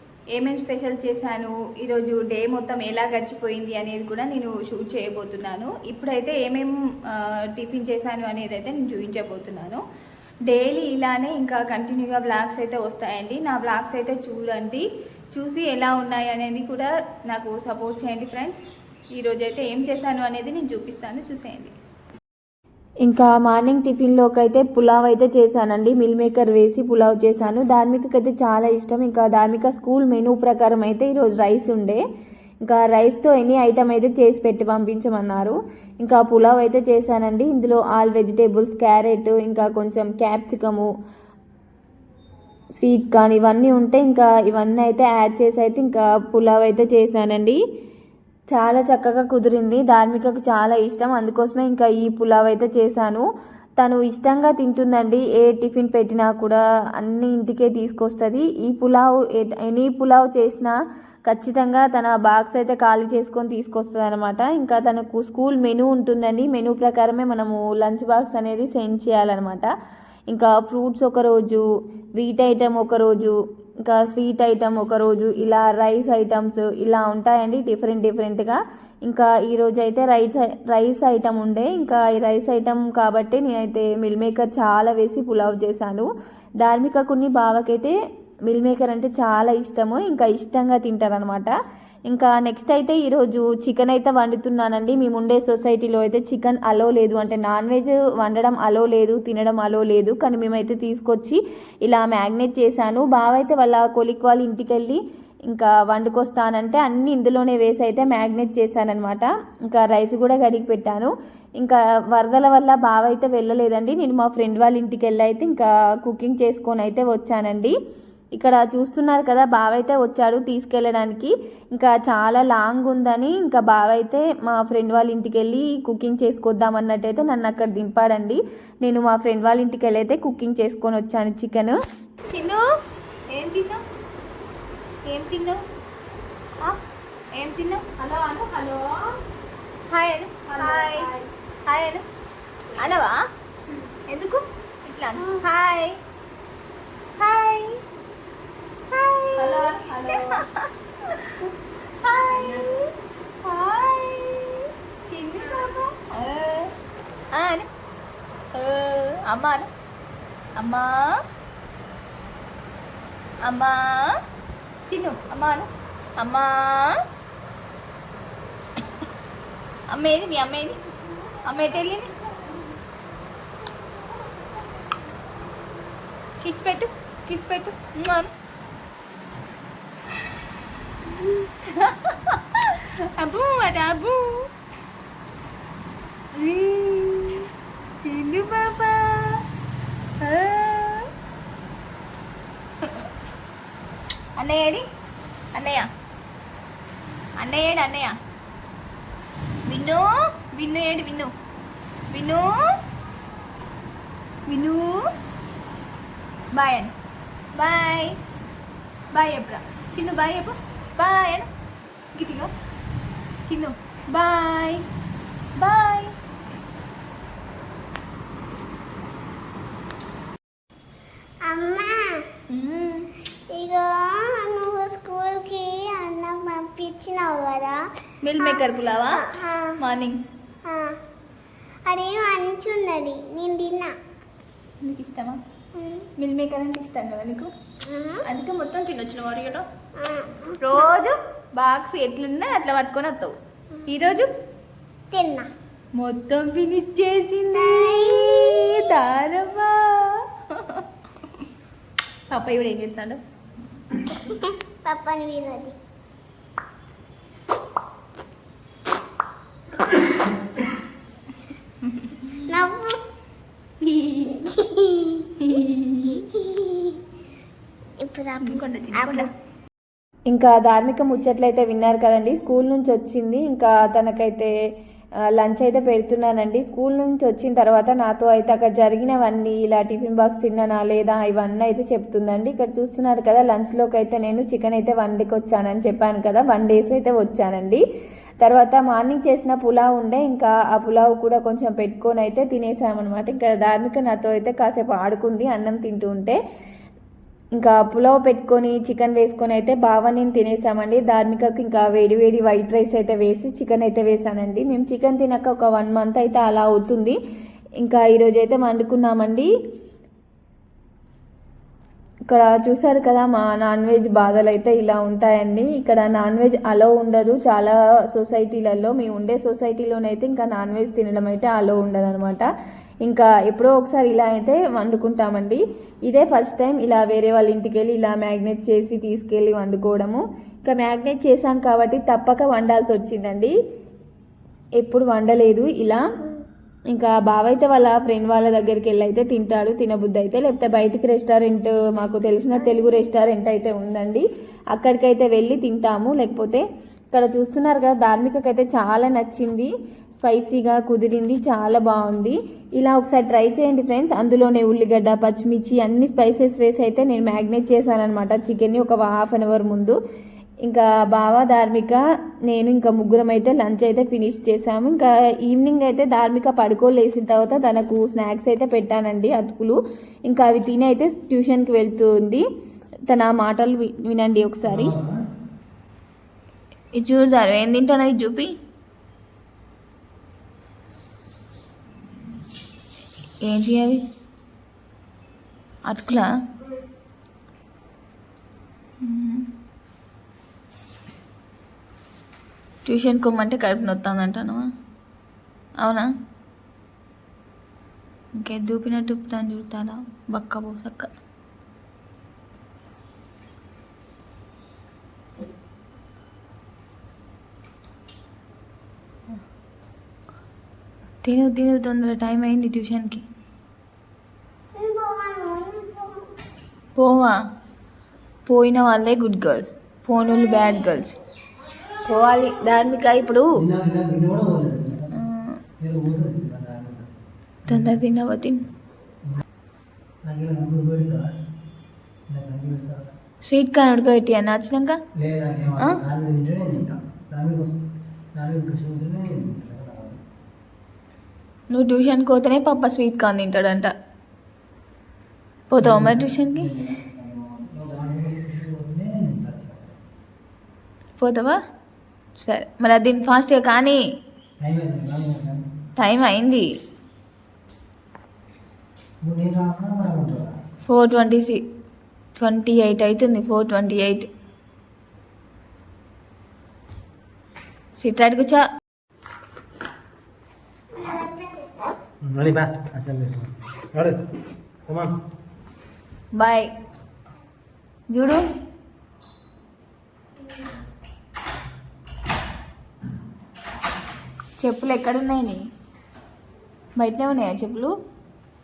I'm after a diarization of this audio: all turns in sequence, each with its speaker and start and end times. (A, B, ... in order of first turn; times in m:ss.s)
0:00.3-0:09.8 A
0:02.4-0:02.7 B
0:03.3-0:03.8 B
0:10.5-0:18.6 A
0:19.2-0:21.7 A
0:23.0-0:32.0 B
0:32.6-0:40.9 B
0:42.8-0:47.6 B
0:48.5-0:53.3 B
0:53.8-1:09.7 B
1:10.3-1:11.6 B
1:12.2-1:28.0 B
1:28.5-1:31.5 B
1:32.1-1:57.8 B
1:58.4-2:11.8 B
2:12.3-2:12.6 A
2:13.3-2:13.8 A
2:15.1-2:15.6 A
2:17.4-2:19.2 A
2:19.9-2:21.1 A
2:20.5-2:21.1 B
2:21.7-2:22.0 A
2:22.8-2:23.2 A
2:24.1-2:26.0 A
2:27.2-2:27.8 A
2:29.4-2:30.4 A
2:29.4-2:30.2 B
2:32.1-2:32.8 A
2:32.3-2:32.6 B
2:33.4-2:36.7 A
2:37.3-2:37.7 A
2:38.5-2:39.7 A
2:40.6-2:41.2 A
2:43.4-2:44.2 A
2:44.9-2:47.0 A
2:49.9-2:50.8 A
2:51.4-2:52.1 A
2:56.4-2:58.3 A
3:01.3-3:04.5 A
3:06.4-3:07.5 A
3:08.0-3:09.4 A
3:10.2-3:11.1 A
3:14.4-3:14.8 A
3:15.5-3:15.9 A
3:17.4-3:18.2 A
3:19.7-3:21.3 A
3:22.1-3:22.8 A
3:24.5-3:25.0 A
3:26.5-3:26.9 A
3:27.6-3:28.2 A
3:29.1-3:31.5 A
3:32.2-3:32.5 A
3:33.5-3:34.8 A
3:34.3-3:34.6 B
3:35.6-3:36.1 A
3:41.4-3:42.3 C
3:42.5-3:43.1 A
3:43.5-3:47.9 C
3:48.2-3:50.2 A
3:48.4-3:49.8 C
3:50.6-3:51.0 C
3:51.8-3:54.0 C
3:54.8-3:55.4 A
3:55.7-3:56.1 C
3:56.2-3:57.5 A
3:57.8-3:58.2 C
3:58.2-3:59.7 A
4:00.0-4:00.9 C
4:00.6-4:03.3 A
4:01.7-4:03.3 B
4:03.9-4:04.3 A
4:05.1-4:05.5 C
4:06.0-4:09.7 A
4:07.5-4:08.8 C
4:09.1-4:09.5 B
4:12.3-4:13.2 A
4:14.4-4:15.8 C
4:21.9-4:22.3 A
4:22.5-4:23.0 C
4:23.8-4:24.5 A
4:24.5-4:25.3 C
4:25.4-4:26.2 A
4:26.1-4:27.0 C
4:28.0-4:29.3 C
4:28.4-4:29.3 A
4:30.3-4:34.5 B
4:35.3-4:47.8 B
4:48.4-4:56.4 B
4:57.6-5:07.2 B
5:07.8-5:09.5 B
5:12.3-5:22.5 B
5:23.0-5:33.5 B
5:34.8-5:36.1 B
5:36.9-6:00.0 B
6:00.7-6:12.4 B
6:13.1-6:14.9 B
6:14.6-6:15.2 D
6:17.0-6:18.5 B
6:23.4-6:24.0 B
6:25.9-6:26.3 B
6:29.0-6:29.4 B
6:32.8-6:34.7 B
6:35.8-6:36.1 B
6:38.4-6:41.1 B
6:51.2-6:53.2 B
6:54.7-6:56.3 C
6:57.0-6:57.4 B
6:58.5-7:01.2 B
7:02.1-7:03.5 B
7:03.6-7:05.2 D
7:05.2-7:05.6 B
7:05.8-7:07.1 D
7:07.7-7:08.0 D
7:07.7-7:08.6 B
7:10.2-7:11.2 D
7:12.3-7:13.1 D
7:13.5-7:15.0 B
7:15.2-7:17.8 D
7:18.4-7:20.2 D
7:21.7-7:23.9 B
7:25.7-7:26.7 B
7:25.8-7:30.0 D
7:31.2-7:31.6 B
7:32.4-7:34.0 B
7:34.6-7:35.6 D
7:36.0-7:36.7 B
7:39.2-7:40.6 D
7:40.9-7:41.6 B
7:42.4-7:44.3 B
7:48.0-7:48.7 B
7:51.0-7:51.5 C
7:52.2-7:54.2 D
7:54.9-7:55.1 D
7:56.4-7:56.7 B
7:58.1-7:58.4 B
8:04.6-8:05.6 B
8:07.0-8:07.9 B